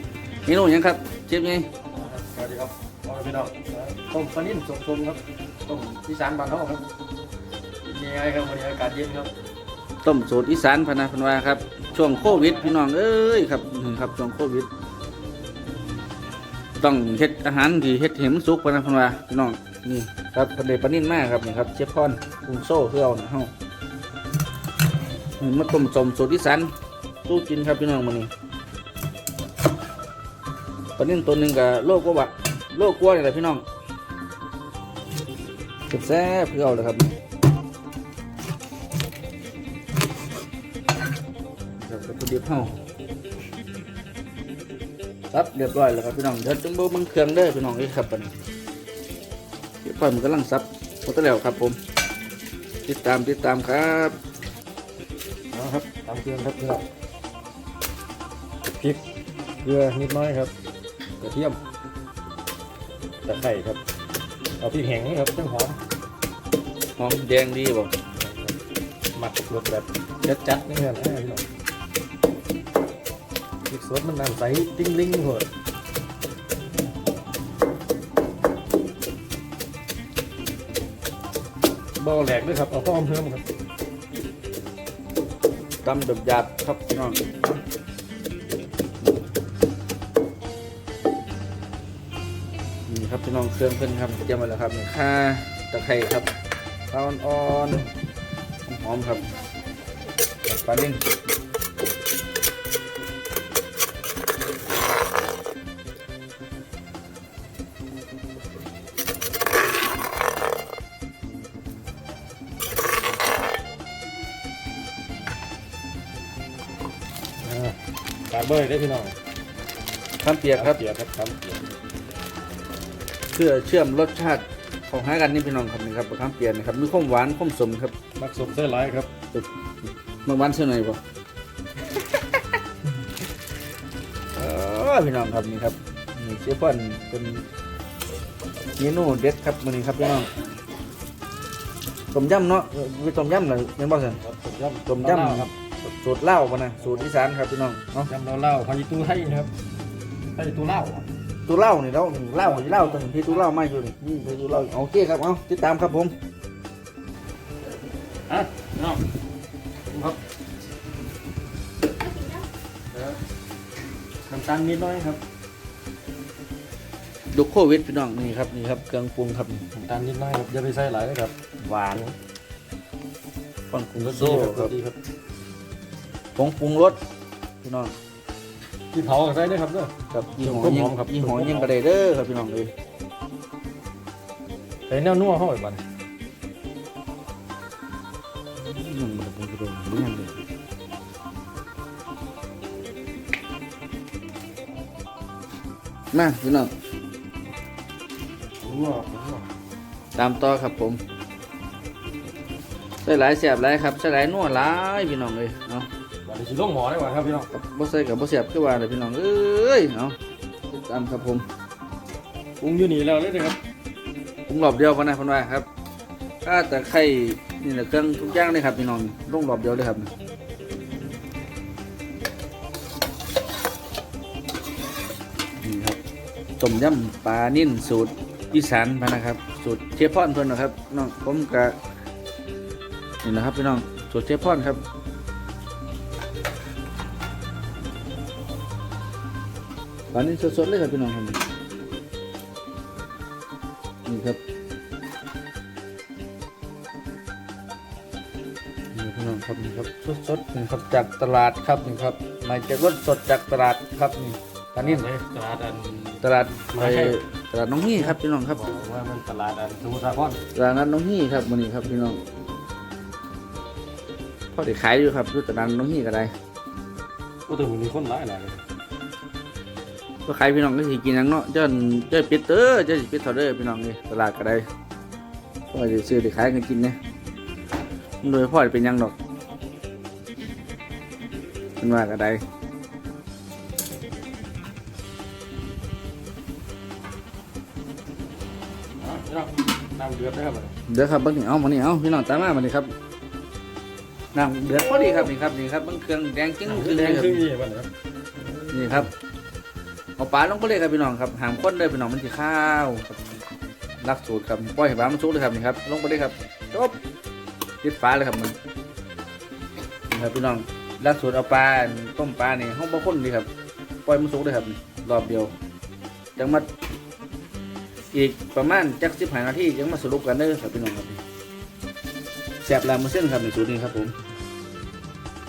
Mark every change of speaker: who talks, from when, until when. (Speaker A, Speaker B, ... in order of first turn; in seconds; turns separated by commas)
Speaker A: 0.5-1.7, Speaker B: 1.9-6.8, Speaker B: 7.8-9.3, Speaker A: 10.0-14.7, Speaker B: 12.0-12.8, Speaker A: 16.8-23.5, Speaker A: 25.4-26.7, Speaker A: 27.2-28.3, Speaker A: 31.0-33.6, Speaker A: 35.9-37.1, Speaker A: 41.8-42.7, Speaker A: 45.3-48.3, Speaker A: 49.8-51.8, Speaker A: 52.9-54.2, Speaker B: 55.5-56.8, Speaker B: 58.6-59.0, Speaker B: 59.6-60.5, Speaker B: 61.2-61.6, Speaker B: 63.2-63.8, Speaker B: 64.6-65.8, Speaker A: 67.0-67.9, Speaker B: 68.2-68.5, Speaker B: 69.1-71.4, Speaker B: 73.7-75.5, Speaker B: 82.0-83.4, Speaker A: 85.8-87.4, Speaker A: 92.9-96.3, Speaker A: 96.9-97.9, Speaker A: 98.7-99.2, Speaker A: 100.5-101.0, Speaker B: 117.4-117.8, Speaker B: 118.3-119.1, Speaker A: 120.2-120.8, Speaker B: 120.5-121.6, Speaker A: 123.3-127.9, Speaker B: 128.2-129.1, Speaker A: 130.2-131.0, Speaker A: 134.3-137.4, Speaker A: 138.8-140.3, Speaker A: 142.1-144.2, Speaker B: 144.1-145.5, Speaker A: 144.9-148.1, Speaker B: 146.8-147.1, Speaker B: 148.1-149.5, Speaker B: 150.3-151.1, Speaker A: 151.4-156.1, Speaker B: 152.3-153.4, Speaker B: 158.3-159.0, Speaker B: 159.9-160.2, Speaker B: 162.9-163.2, Speaker B: 164.3-165.2, Speaker A: 167.3-169.6, Speaker B: 169.7-172.1, Speaker A: 173.7-174.7, Speaker B: 174.0-175.0, Speaker A: 176.3-177.0, Speaker A: 177.6-177.9, Speaker B: 178.9-181.7, Speaker A: 180.1-182.7, Speaker B: 184.9-185.8, Speaker A: 188.6-190.4, Speaker A: 196.1-196.7, Speaker B: 198.6-199.5, Speaker A: 200.1-201.0, Speaker A: 203.0-205.9, Speaker B: 206.2-207.5, Speaker A: 207.5-210.2, Speaker A: 210.7-211.4, Speaker B: 212.6-213.6, Speaker A: 214.5-215.7, Speaker A: 216.4-220.1, Speaker A: 225.6-226.0, Speaker A: 226.6-231.8, Speaker A: 233.2-234.8, Speaker A: 240.1-241.4, Speaker A: 244.1-244.4, Speaker A: 248.9-255.1, Speaker B: 254.8-257.2, Speaker A: 256.2-258.6, Speaker B: 257.9-260.4, Speaker A: 260.5-262.2, Speaker A: 264.5-266.3, Speaker B: 267.5-268.6, Speaker A: 270.2-274.6, Speaker A: 275.7-277.0, Speaker A: 278.2-279.1, Speaker A: 281.8-282.4, Speaker B: 289.0-290.7, Speaker A: 290.9-292.9, Speaker A: 294.3-297.4, Speaker B: 294.9-295.3, Speaker B: 296.6-299.1, Speaker A: 298.7-299.1, Speaker A: 300.2-303.1, Speaker A: 304.0-307.0, Speaker A: 307.8-308.6, Speaker A: 310.1-313.5, Speaker A: 314.1-315.5, Speaker A: 316.4-316.7, Speaker A: 318.1-321.2, Speaker A: 322.6-324.1